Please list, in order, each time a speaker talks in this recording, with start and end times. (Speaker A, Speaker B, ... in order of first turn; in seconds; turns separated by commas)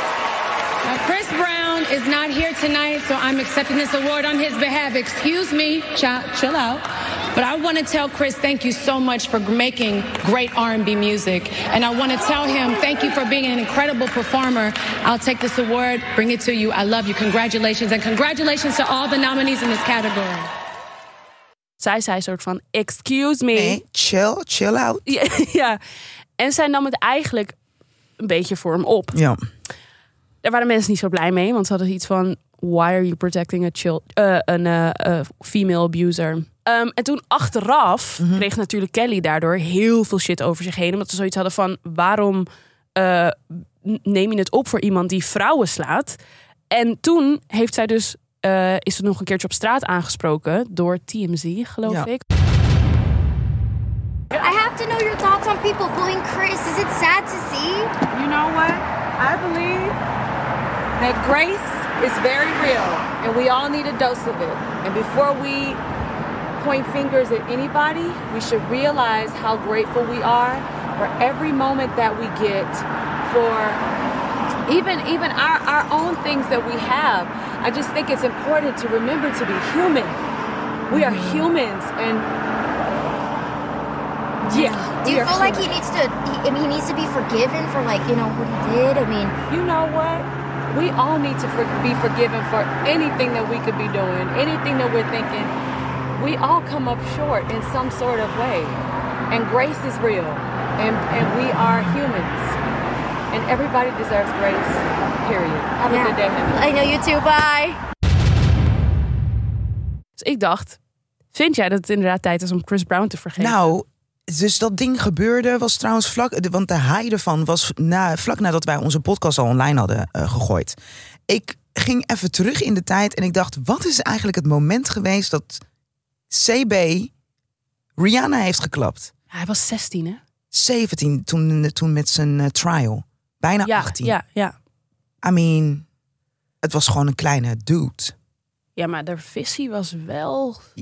Speaker A: 0.8-20.5, Speaker B: 21.8-23.8, Speaker C: 23.5-25.1, Speaker B: 25.1-25.8, Speaker B: 26.4-27.6, Speaker B: 28.2-29.2, Speaker C: 29.1-29.4, Speaker B: 30.4-46.2, Speaker C: 38.2-38.5, Speaker B: 46.7-52.2, Speaker C: 51.9-52.1, Speaker D: 54.4-57.9, Speaker E: 58.1-60.0, Speaker E: 61.0-65.8, Speaker E: 66.6-73.8, Speaker E: 74.7-80.2, Speaker E: 80.9-82.3, Speaker E: 84.4-85.8, Speaker B: 84.5-84.9, Speaker D: 85.0-89.4, Speaker E: 89.5-95.5, Speaker E: 96.1-98.8, Speaker E: 99.3-102.6, Speaker E: 103.3-107.0, Speaker D: 105.8-107.8, Speaker B: 110.2-110.8, Speaker B: 111.3-113.7, Speaker C: 113.4-120.8, Speaker C: 121.3-125.6, Speaker C: 126.3-127.1, Speaker C: 128.0-129.1, Speaker B: 129.3-130.2, Speaker C: 130.5-134.2, Speaker B: 133.6-134.5, Speaker C: 135.2-135.8, Speaker C: 136.6-138.1, Speaker B: 138.8-140.6